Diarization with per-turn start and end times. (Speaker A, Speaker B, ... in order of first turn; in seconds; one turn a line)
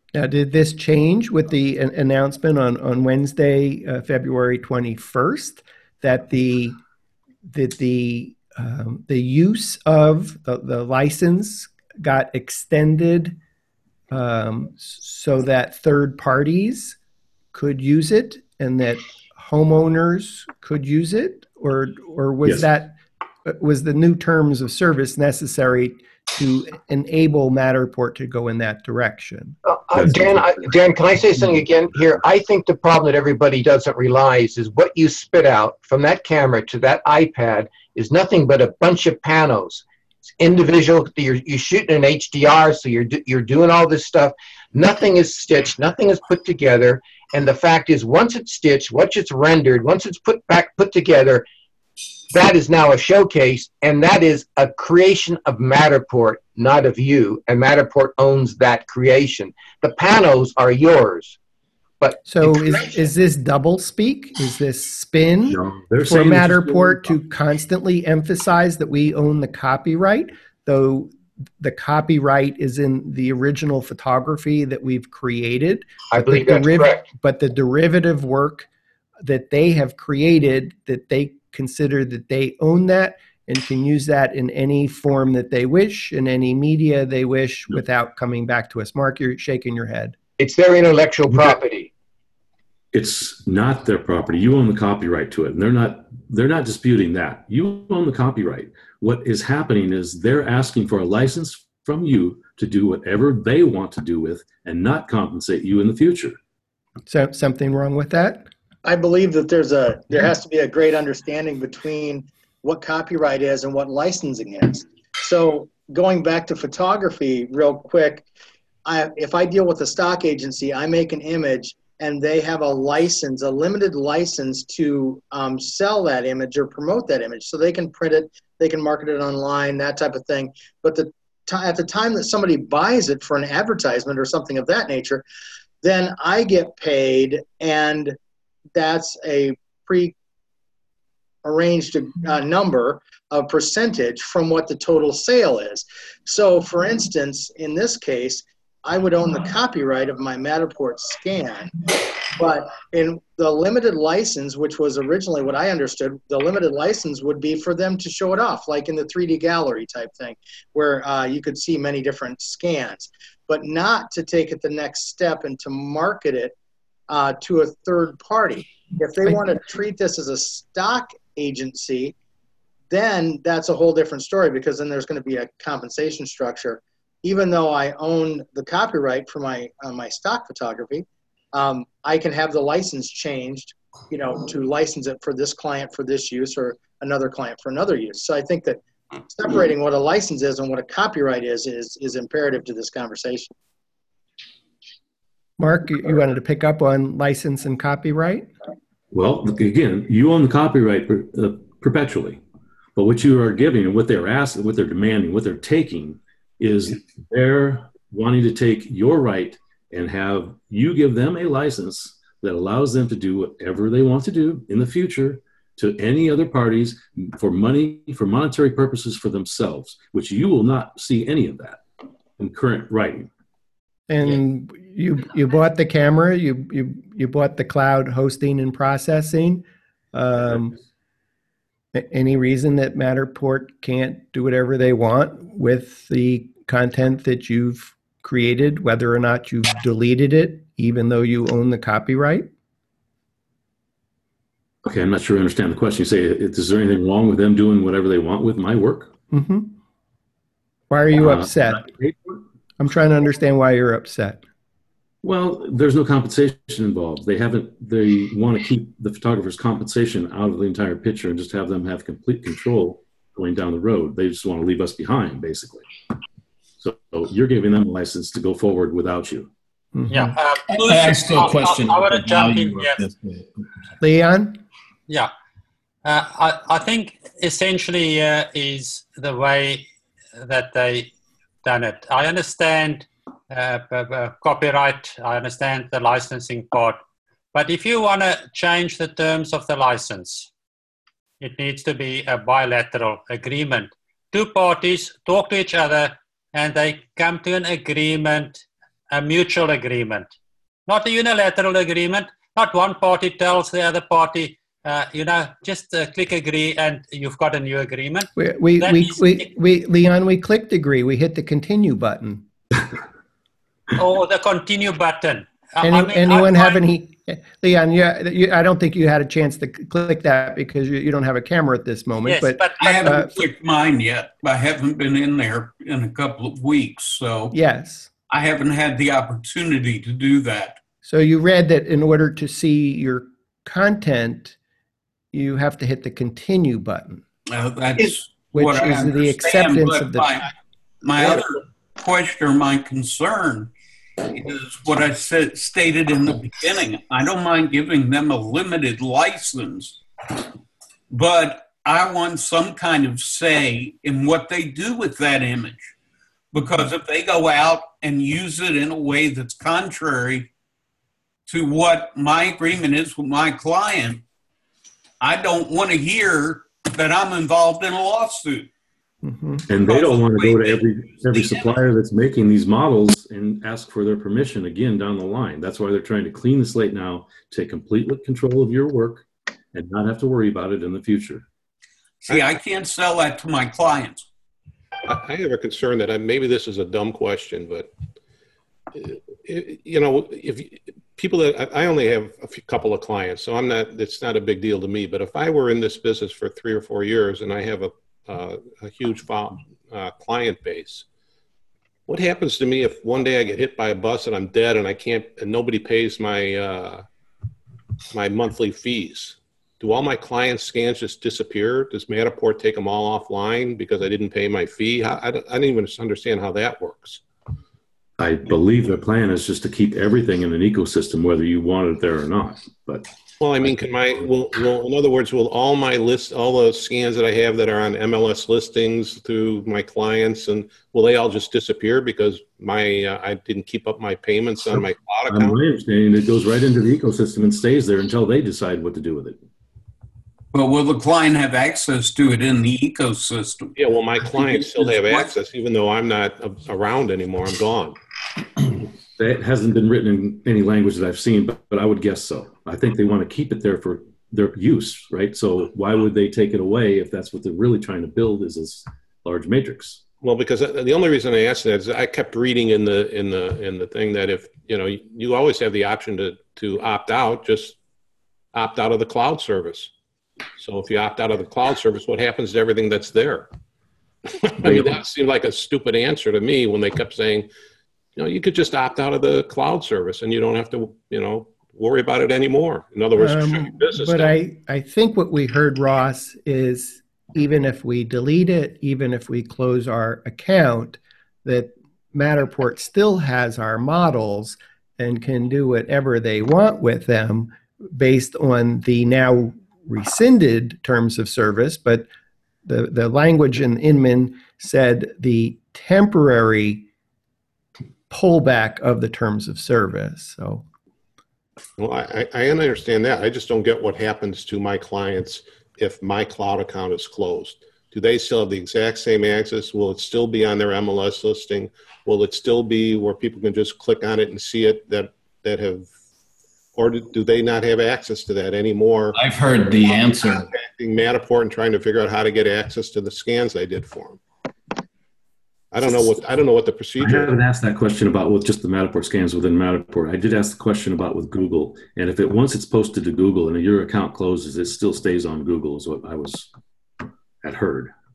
Speaker A: 0.1-6.8
Speaker A: 7.5-13.4
Speaker A: 14.1-17.0
Speaker A: 17.5-29.6
Speaker B: 22.4-22.7
Speaker C: 29.6-39.8
Speaker B: 29.9-30.8
Speaker B: 31.3-31.6
Speaker C: 40.4-51.5
Speaker C: 52.3-61.4
Speaker C: 62.0-63.0
Speaker A: 62.3-78.7
Speaker B: 65.5-67.2
Speaker C: 76.1-77.0
Speaker A: 79.2-90.2
Speaker C: 90.4-91.9
Speaker B: 92.9-106.4
Speaker A: 107.1-108.5
Speaker D: 108.8-118.3
Speaker D: 118.9-135.2
Speaker D: 135.8-138.2
Speaker D: 138.8-140.1
Speaker D: 141.4-166.6
Speaker D: 167.1-172.2
Speaker D: 172.9-193.5
Speaker A: 195.6-198.5
Speaker B: 199.1-202.4
Speaker B: 203.0-221.8
Speaker B: 222.4-223.3
Speaker A: 224.1-230.8
Speaker A: 231.9-242.5
Speaker B: 244.8-249.1
Speaker A: 249.3-249.8
Speaker A: 250.9-251.9
Speaker B: 251.2-252.3
Speaker A: 252.8-254.4
Speaker B: 255.2-265.9
Speaker B: 266.8-269.5
Speaker A: 269.9-270.3
Speaker E: 270.1-273.1
Speaker F: 270.7-273.5
Speaker G: 270.8-271.4
Speaker A: 274.0-274.6
Speaker E: 276.1-279.9
Speaker E: 280.4-281.1
Speaker E: 281.6-287.0
Speaker E: 287.5-290.5
Speaker E: 291.4-300.3
Speaker E: 300.9-309.4
Speaker A: 308.4-312.4
Speaker E: 314.0-316.8
Speaker A: 315.8-323.4
Speaker E: 322.3-323.0
Speaker G: 322.8-327.6
Speaker A: 327.5-328.1
Speaker G: 328.3-330.8
Speaker A: 331.1-334.6
Speaker A: 335.3-337.2
Speaker G: 337.5-340.5
Speaker A: 338.5-340.5
Speaker G: 341.0-343.7
Speaker G: 344.3-350.0
Speaker G: 351.1-355.9
Speaker G: 356.5-360.5
Speaker G: 361.5-364.2
Speaker G: 365.2-368.7
Speaker A: 369.2-369.6
Speaker B: 369.7-381.5
Speaker G: 369.8-371.8
Speaker G: 382.2-384.3
Speaker H: 385.1-387.9
Speaker H: 388.9-401.1
Speaker H: 402.1-407.1
Speaker H: 408.1-417.2
Speaker B: 418.2-423.1
Speaker H: 423.4-435.6
Speaker B: 423.6-424.2
Speaker B: 434.8-439.4
Speaker G: 440.5-445.3
Speaker H: 443.8-448.0
Speaker B: 449.2-460.0
Speaker H: 460.2-467.8
Speaker H: 468.5-469.9
Speaker H: 470.6-473.5
Speaker H: 474.4-477.5
Speaker B: 474.6-475.0
Speaker H: 478.2-484.4
Speaker A: 483.2-502.1
Speaker A: 502.7-506.9
Speaker A: 508.1-510.6
Speaker H: 511.8-525.9
Speaker H: 526.8-529.2
Speaker F: 529.1-530.5
Speaker H: 529.8-534.2
Speaker H: 535.7-537.4
Speaker B: 537.0-546.5
Speaker B: 547.4-547.9